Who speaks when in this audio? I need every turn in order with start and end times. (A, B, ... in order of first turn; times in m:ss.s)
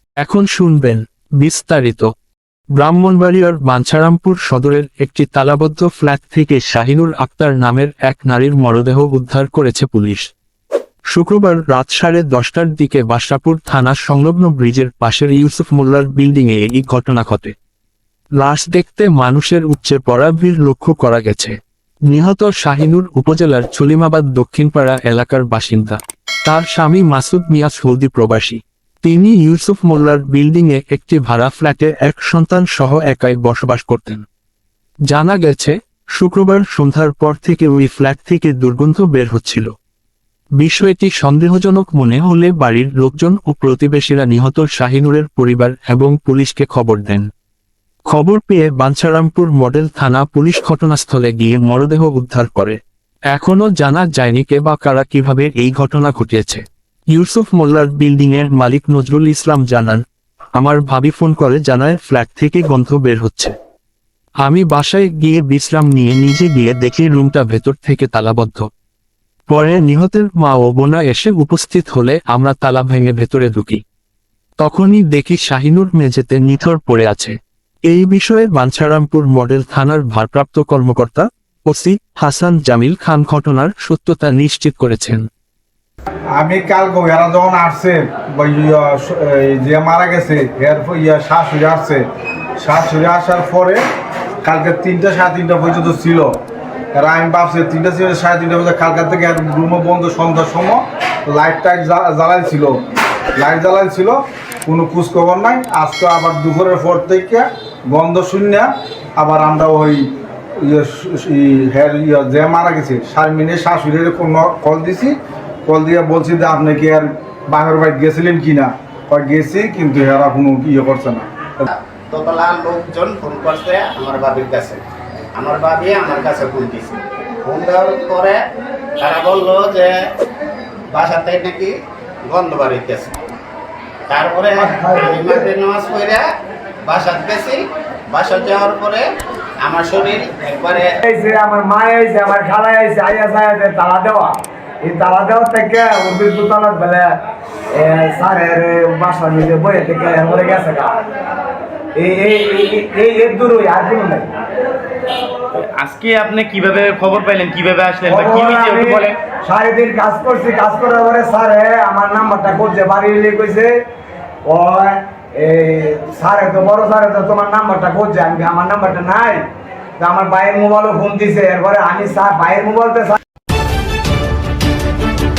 0:00.2-0:02.1 A
0:02.8-0:10.2 A
0:11.2-0:17.5 A
0:18.4-0:21.5 A
0:22.1-0:34.2 A
0:35.1-0:39.7 A
0:40.6-0:47.2 A
0:48.1-0:52.8 A
0:53.3-0:56.6 A
0:57.1-1:00.0 A
1:00.6-1:03.5 A
1:04.5-1:08.6 A
1:09.5-1:13.8 A
1:14.6-1:17.3 A
1:17.9-1:25.2 A
1:26.4-1:32.0 B
1:32.6-1:33.8 B
1:34.4-1:36.4 B
1:36.9-1:42.8 B
1:43.4-2:01.2 B
2:01.7-2:04.8 C
2:05.3-2:08.4 C
2:09.0-2:10.0 C
2:10.9-2:13.2 C
2:14.1-2:16.2 C
2:14.6-2:15.4 D
2:16.8-2:19.0 C
2:19.6-2:21.0 C
2:21.0-2:27.1 D
2:27.7-2:31.0 D
2:32.0-2:34.3 D
2:35.5-2:39.2 E
2:38.1-2:43.7 D
2:44.5-2:49.4 D
2:50.0-2:53.2 D